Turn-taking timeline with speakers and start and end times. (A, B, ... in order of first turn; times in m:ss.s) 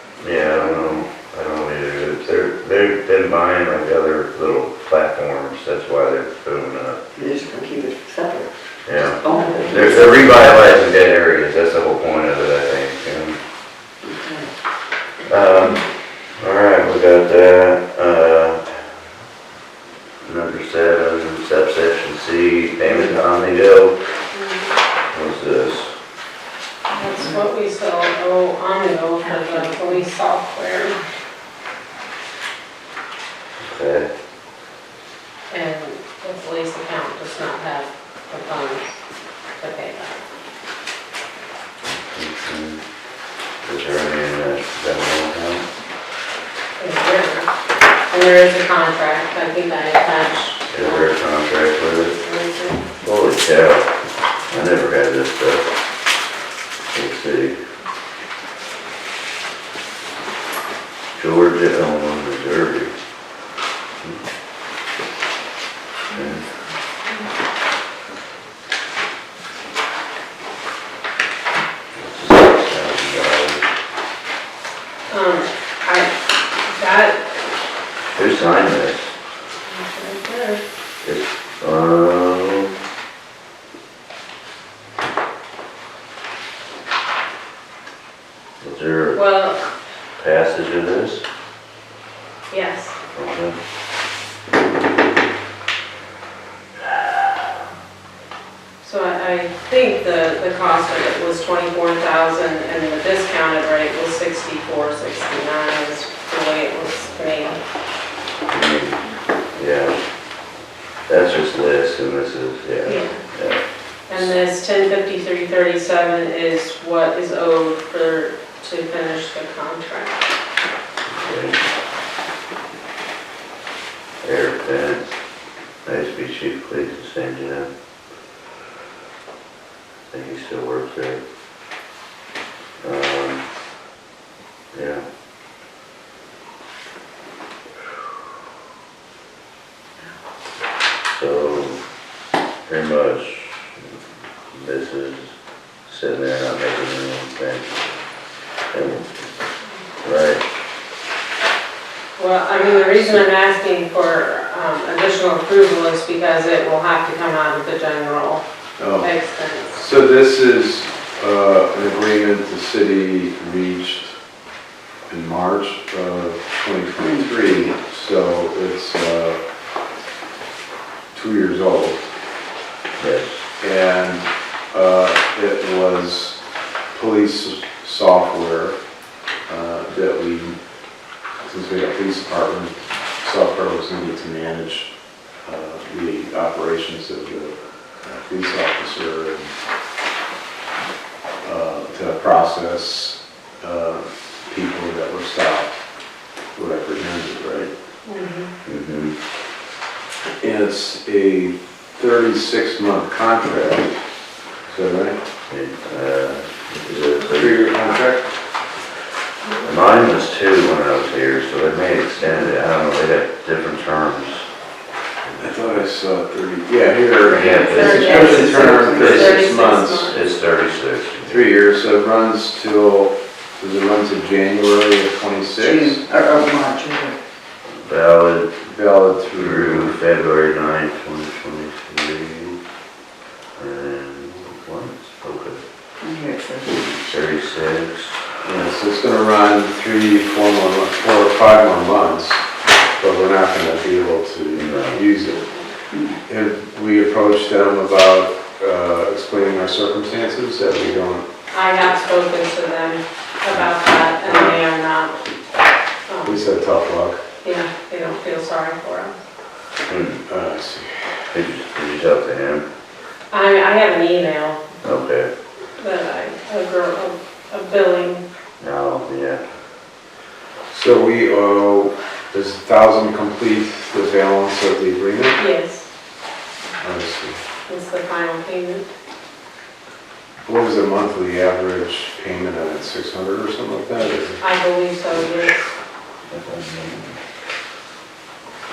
0:00.2-0:07.0 A
0:07.2-0:08.5 B
0:08.9-0:13.4 A
0:09.2-0:10.2 B
0:14.0-0:14.5 B
0:15.3-0:15.9 A
0:16.4-0:18.9 A
0:20.2-0:24.0 A
0:24.3-0:24.7 C
0:25.1-0:25.9 A
0:26.9-0:31.0 C
0:33.6-0:34.1 A
0:35.5-0:39.0 C
0:39.6-0:40.2 C
0:42.1-0:42.8 A
0:43.6-0:45.6 A
0:46.8-0:47.5 C
0:48.1-0:51.1 C
0:50.7-0:52.2 A
0:52.2-0:52.8 C
0:53.0-0:53.9 A
0:54.5-0:55.7 A
0:56.9-0:57.6 A
1:01.2-1:02.9 A
1:06.1-1:06.4 A
1:11.9-1:13.7 A
1:15.1-1:17.2 C
1:18.0-1:19.1 A
1:19.7-1:20.6 C
1:21.0-1:22.8 A
1:28.6-1:29.3 A
1:29.2-1:29.7 C
1:30.2-1:31.2 A
1:32.5-1:33.0 C
1:33.1-1:33.6 A
1:38.8-1:47.6 C
1:48.5-1:49.0 A
1:49.6-1:50.0 A
1:51.1-1:54.4 A
1:52.8-1:53.2 C
1:54.1-2:00.2 C
2:01.1-2:01.6 A
2:04.2-2:05.1 A
2:05.8-2:07.7 A
2:10.1-2:11.2 A
2:12.8-2:13.4 A
2:14.7-2:15.0 A
2:21.1-2:21.8 A
2:22.7-2:23.7 A
2:24.5-2:25.3 A
2:25.9-2:27.7 A
2:28.7-2:29.2 A
2:30.0-2:30.4 A
2:32.2-2:38.4 C
2:38.8-2:39.1 D
2:39.0-2:39.8 C
2:39.7-2:44.1 D
2:45.1-2:49.4 D
2:51.1-2:52.1 D
2:53.0-2:53.4 A
2:53.6-2:56.4 D
2:56.9-2:58.8 D
2:59.5-3:00.6 D
3:01.4-3:04.9 D
3:05.4-3:09.5 D
3:11.4-3:15.7 D
3:16.6-3:17.7 D
3:18.0-3:18.5 C
3:18.6-3:19.2 A
3:20.4-3:24.0 D
3:24.7-3:25.2 D
3:25.5-3:27.7 A
3:27.3-3:28.3 D
3:29.6-3:34.5 A
3:35.2-3:35.8 A
3:35.4-3:40.1 D
3:37.2-3:40.2 C
3:37.2-3:38.1 A
3:37.8-3:39.3 B
3:40.1-3:41.5 A
3:41.2-3:46.0 D
3:45.6-3:47.2 B
3:47.8-3:48.6 A
3:48.6-3:50.0 D
3:49.3-3:52.6 A
3:53.6-3:55.6 A
3:56.0-3:56.9 B
3:56.8-3:58.2 A
3:58.4-4:02.4 D
4:03.0-4:05.5 D
4:04.5-4:05.0 A
4:06.3-4:11.2 D
4:11.5-4:15.2 C
4:14.2-4:14.6 D
4:16.1-4:16.4 C
4:16.2-4:17.2 D
4:17.4-4:19.2 C
4:19.9-4:20.2 A
4:20.3-4:20.9 D
4:21.3-4:22.7 A
4:23.3-4:24.6 C
4:24.8-4:25.3 A
4:25.8-4:28.2 C
4:28.6-4:29.4 A
4:30.7-4:35.4 D
4:35.4-4:35.9 C
4:36.8-4:37.4 D
4:37.7-4:38.9 C
4:40.5-4:44.4 D
4:44.4-4:45.7 C
4:46.3-4:47.2 A